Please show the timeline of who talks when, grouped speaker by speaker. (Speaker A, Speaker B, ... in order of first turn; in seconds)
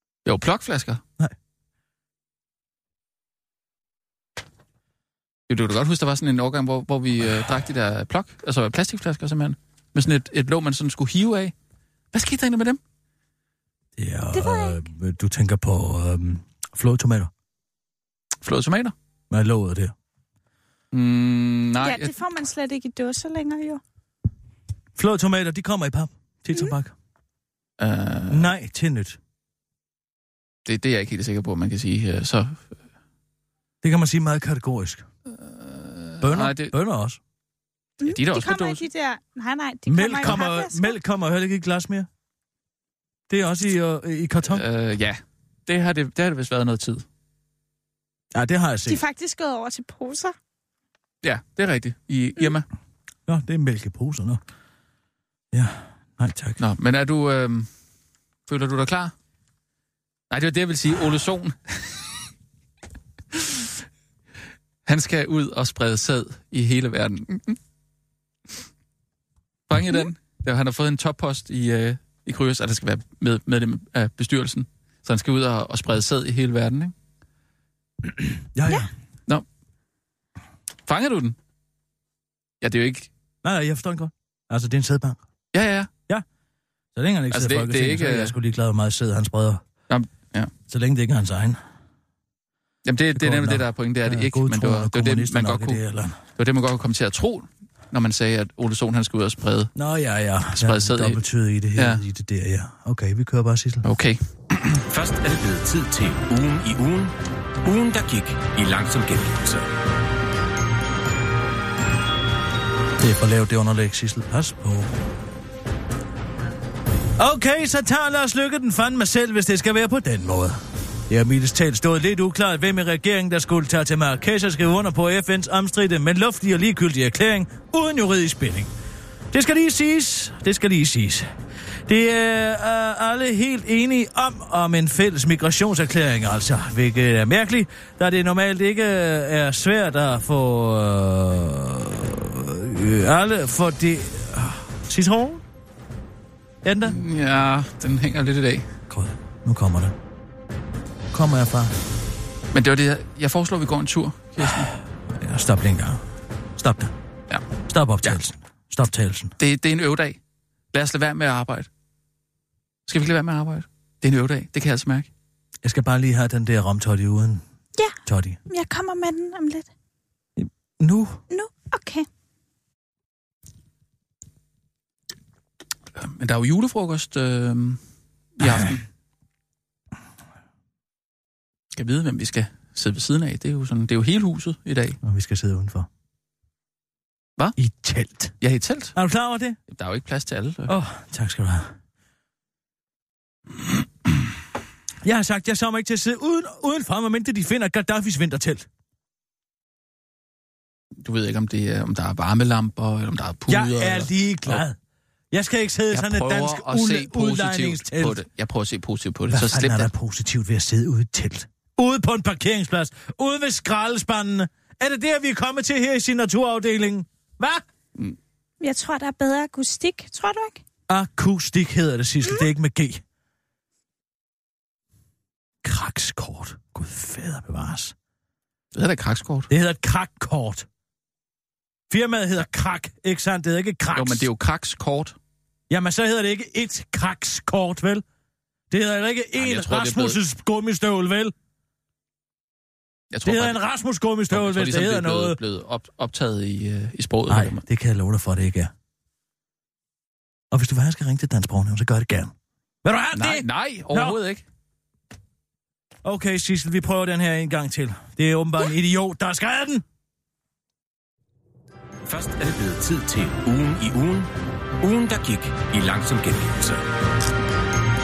Speaker A: 0.2-1.0, 5.5-11.5, 12.1-12.8, 18.4-18.9, 20.9-22.1, 27.8-28.5, 30.7-32.7, 35.4-36.7, 38.1-38.9, 44.5-47.0, 51.2-52.7, 56.6-57.7, 58.5-59.1, 60.3-62.1, 63.3-63.7, 64.9-67.6, 69.7-76.9, 80.9-81.4, 82.6-83.1, 85.5-85.9, 87.3-88.3, 89.9-90.5, 92.8-95.8, 96.4-99.7, 100.6-101.2, 101.8-102.0, 103.8-104.8, 146.8-148.7, 152.5-154.7, 159.4-160.2, 160.7-161.7, 162.9-165.1, 176.0-177.8, 178.4-178.8, 181.7-185.0, 188.4-188.9, 189.7-190.7, 201.0-204.6, 205.9-209.9, 228.7-229.5, 233.9-235.2, 239.4-240.2, 243.1-243.6, 244.3-247.6, 253.2-254.4
Speaker B: 14.0-17.3, 19.3-19.9, 25.0-26.9, 28.3-29.2, 33.8-35.1, 36.2-37.2, 39.9-42.1, 43.3-44.6, 48.3-49.0, 53.3-54.4, 55.5-56.6, 78.5-78.9, 83.4-85.2, 87.0-89.6, 90.7-91.6, 93.1-96.2, 99.8-103.8, 113.0-114.9, 117.2-120.6, 121.1-128.7, 129.3-131.3, 131.9-145.4, 146.6-147.0, 148.9-149.9, 151.1-151.8, 155.2-156.0, 156.6-156.9, 157.7-159.3, 165.6-167.4, 168.1-168.4, 170.4-171.2, 178.4-178.7, 185.0-185.9, 187.6-188.3, 188.9-189.6, 190.7-191.7, 195.0-198.7, 203.5-204.8, 205.3-208.2, 209.3-217.6, 220.9-223.0, 225.6-227.9, 229.5-230.7, 231.9-234.3, 235.7-238.0, 238.7-241.3, 243.2-245.4, 247.3-248.7, 250.5-252.3, 252.8-254.2, 256.1-259.8
Speaker C: 14.3-14.8, 21.8-23.8, 38.0-41.0, 48.9-50.4, 168.5-169.7, 171.3-172.1, 218.6-220.6
Speaker D: 104.9-109.7, 262.1-266.8